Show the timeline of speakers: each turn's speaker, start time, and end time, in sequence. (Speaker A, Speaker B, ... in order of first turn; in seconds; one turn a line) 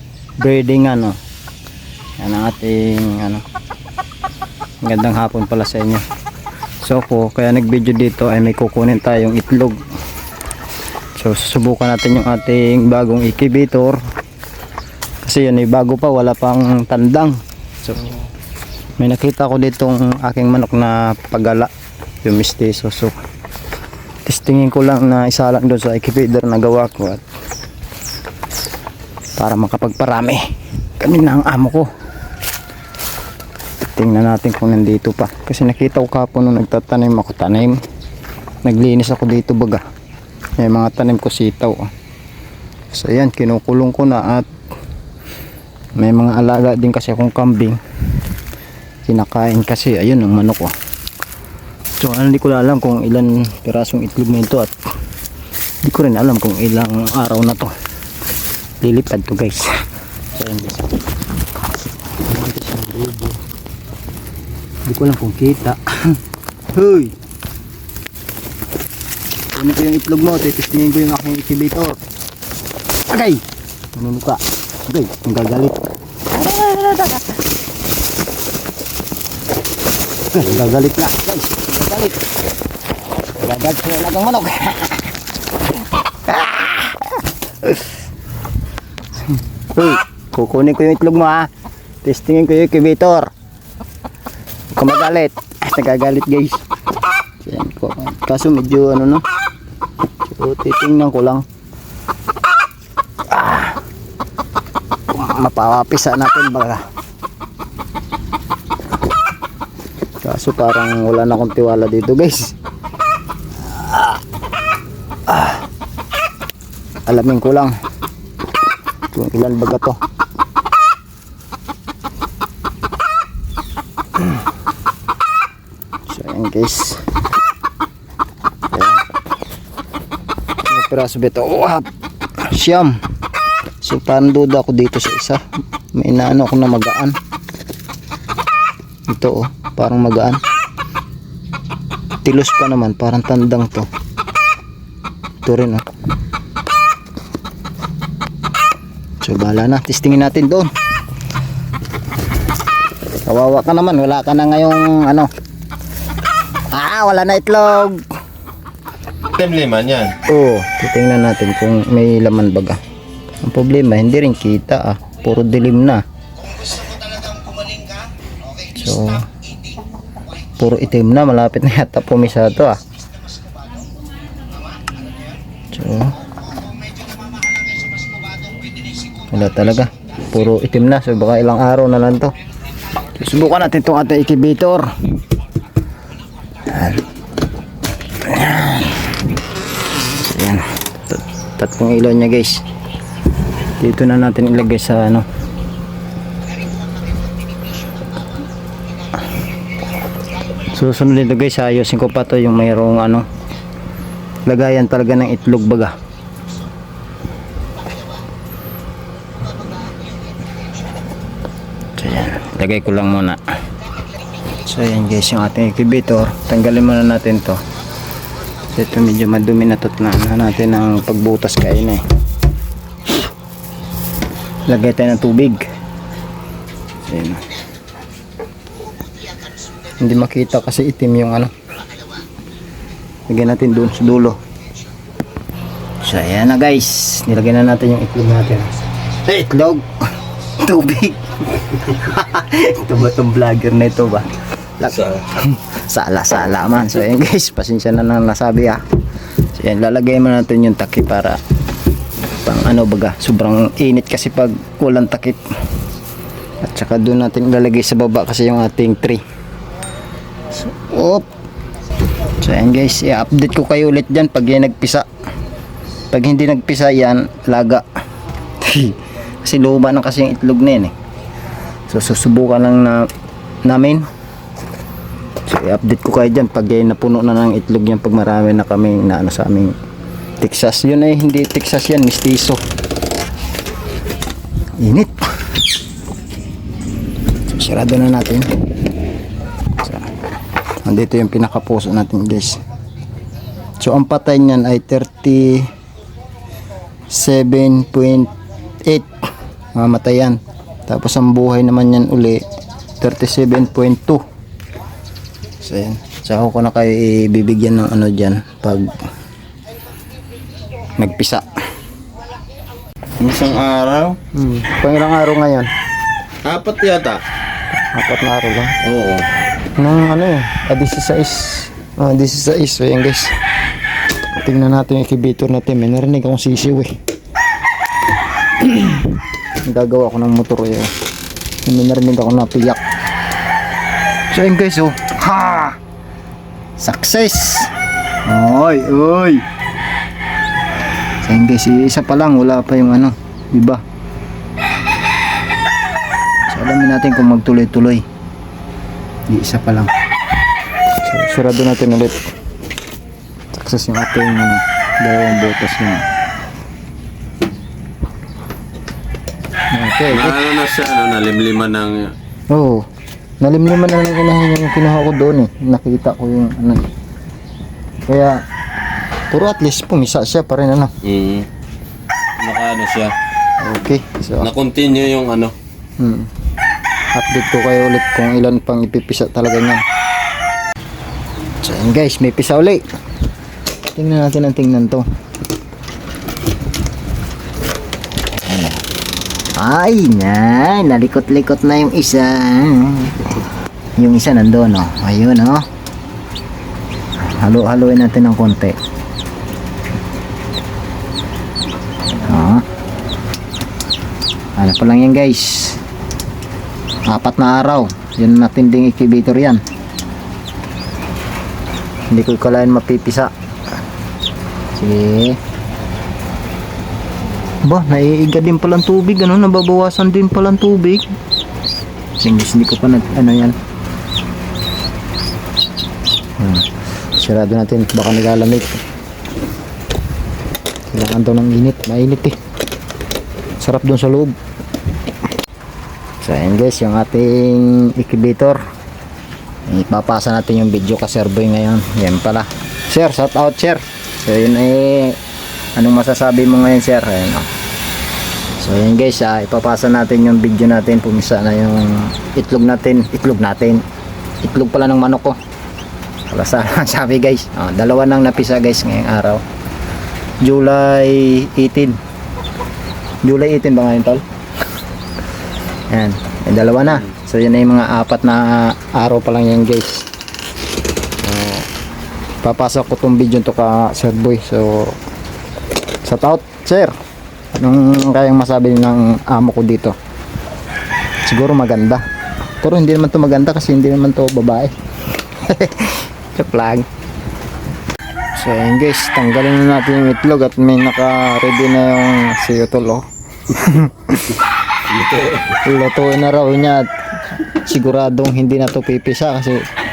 Speaker A: 0.4-1.2
Speaker A: 2.2-3.4
Speaker A: 4.8-6.0
Speaker A: 6.8-9.8
Speaker A: 11.2-14.0
Speaker A: 15.2-18.2
Speaker A: 19.0-21.7
Speaker A: 22.2-23.2
Speaker A: 24.2-27.2
Speaker A: 29.4-31.9
Speaker A: 33.8-37.8
Speaker A: 38.6-39.8
Speaker A: 40.6-41.9
Speaker A: 42.9-44.5
Speaker A: 46.0-47.8
Speaker A: 49.0-50.7
Speaker A: 52.0-54.7
Speaker A: 55.8-57.7
Speaker A: 58.8-59.8
Speaker A: 60.4-61.0
Speaker A: 62.2-63.4
Speaker A: 64.9-66.2
Speaker A: 66.7-67.1
Speaker A: 69.5-72.0
Speaker A: 73.1-73.4
Speaker A: 74.0-75.8
Speaker A: 76.3-77.4
Speaker A: 80.3-82.2
Speaker A: 83.4-85.1
Speaker A: 85.7-87.9
Speaker A: 89.3-91.5
Speaker A: 92.0-93.3
Speaker A: 94.8-96.6
Speaker A: 97.4-99.2
Speaker A: 100.3-101.5
Speaker A: 103.3-103.8
Speaker A: 105.1-106.8
Speaker A: 110.2-112.5
Speaker A: 113.6-114.2
Speaker A: 115.3-115.6
Speaker A: 117.1-117.8
Speaker A: 119.1-120.0
Speaker A: 126.1-127.0
Speaker A: 128.7-129.0
Speaker A: 130.7-131.9
Speaker A: 132.4-133.0
Speaker A: 133.8-135.4
Speaker A: 135.9-137.2
Speaker A: 139.1-140.4
Speaker A: 142.2-143.9
Speaker A: 145.4-145.8
Speaker A: 149.2-150.7
Speaker A: 153.3-155.3
Speaker A: 156.7-158.0
Speaker B: 159.3-160.2
Speaker A: 160.3-162.8
Speaker A: 163.4-166.0
Speaker A: 168.7-169.3
Speaker A: 170.6-172.8
Speaker A: 175.7-176.2
Speaker A: 179.3-182.3
Speaker A: 183.2-184.9
Speaker A: 186.7-187.1
Speaker A: 188.2-189.3
Speaker A: 189.9-192.6
Speaker A: 193.8-195.3
Speaker A: 200.7-203.3
Speaker A: 204.5-205.9
Speaker A: 212.0-213.4
Speaker A: 214.6-217.6
Speaker A: 218.7-222.0
Speaker A: 224.7-225.7
Speaker A: 227.1-227.4
Speaker A: 230.0-231.5
Speaker A: 233.3-234.4
Speaker A: 236.0-239.9
Speaker A: 240.6-248.8
Speaker B: 244.9-245.2
Speaker A: 249.5-251.4
Speaker A: 252.4-255.4
Speaker A: 256.6-259.2
Speaker A: 260.5-261.3
Speaker A: 262.4-265.1
Speaker A: 266.1-267.8
Speaker A: 268.6-270.9
Speaker A: 271.9-273.1
Speaker A: 273.6-274.1
Speaker A: 275.4-279.8
Speaker A: 280.4-282.6
Speaker A: 284.8-285.4
Speaker A: 287.5-288.5
Speaker A: 289.8-290.2
Speaker A: 290.8-292.6
Speaker A: 293.8-295.7
Speaker A: 297.1-298.3
Speaker A: 298.8-299.1
Speaker A: 299.7-302.5
Speaker A: 303.0-304.2
Speaker A: 305.6-309.1
Speaker A: 311.0-311.5
Speaker B: 313.2-314.2
Speaker A: 314.3-315.7
Speaker B: 316.5-317.2
Speaker A: 317.8-318.8
Speaker B: 318.8-319.3
Speaker A: 319.8-323.4
Speaker A: 324.4-327.0
Speaker A: 328.6-330.9
Speaker A: 331.6-332.8
Speaker A: 334.3-335.8
Speaker A: 336.8-337.7
Speaker A: 338.3-339.4
Speaker A: 341.2-343.8
Speaker A: 346.5-348.1
Speaker A: 349.3-349.9
Speaker A: 351.1-352.2
Speaker A: 353.5-356.1
Speaker A: 359.7-360.4
Speaker B: 360.1-362.1
Speaker A: 362.5-362.9
Speaker A: 363.4-366.9
Speaker A: 368.1-368.4
Speaker A: 369.3-370.9
Speaker B: 371.0-371.5
Speaker B: 372.4-373.1
Speaker A: 373.6-374.5
Speaker B: 374.4-375.5
Speaker A: 376.0-376.3
Speaker A: 377.1-379.8
Speaker A: 381.6-382.8
Speaker A: 383.9-385.1
Speaker A: 388.4-388.8
Speaker A: 389.6-393.3
Speaker A: 394.0-395.7
Speaker A: 397.2-398.8
Speaker A: 402.2-402.7
Speaker A: 404.6-405.8
Speaker A: 407.1-409.6
Speaker A: 412.1-413.3
Speaker A: 414.8-415.4
Speaker A: 417.6-421.1
Speaker A: 422.2-423.6
Speaker A: 426.4-428.8
Speaker A: 430.9-432.4
Speaker A: 433.6-434.4
Speaker A: 436.2-438.6
Speaker A: 439.7-445.2
Speaker A: 445.8-447.5
Speaker A: 448.6-453.8
Speaker A: 454.4-455.4
Speaker A: 456.3-459.4
Speaker A: 460.4-462.0
Speaker A: 463.2-464.2
Speaker A: 465.9-470.1
Speaker A: 471.2-471.7
Speaker A: 472.4-475.0
Speaker A: 476.1-476.9
Speaker A: 477.6-480.0
Speaker A: 481.2-482.0
Speaker A: 482.6-486.9
Speaker A: 488.4-494.4
Speaker B: 494.9-495.6
Speaker A: 495.5-499.7